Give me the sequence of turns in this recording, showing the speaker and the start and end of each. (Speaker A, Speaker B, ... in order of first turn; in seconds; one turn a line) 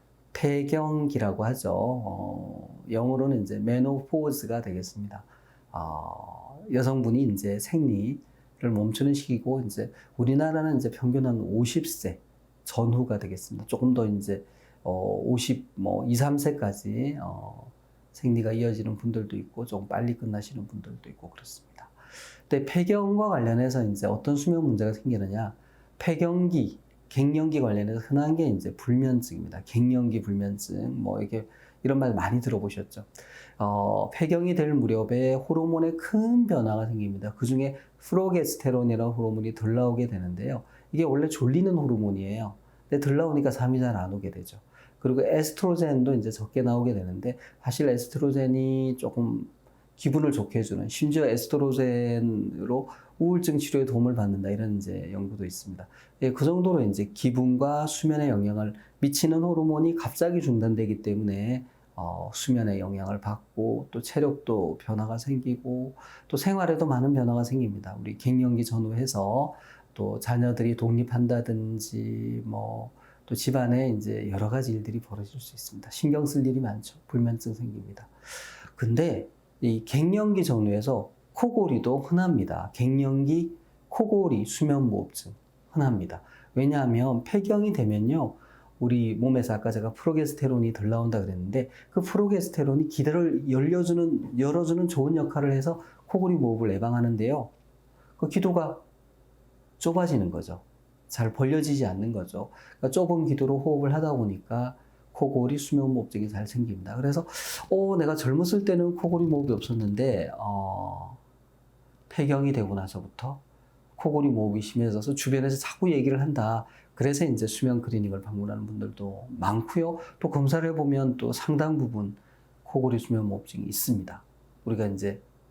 Speaker A: 0.3-21.9
Speaker A: 22.5-78.1
Speaker A: 78.7-97.5
Speaker A: 98.2-98.8
Speaker A: 99.8-111.2
Speaker A: 112.1-113.4
Speaker A: 114.0-125.2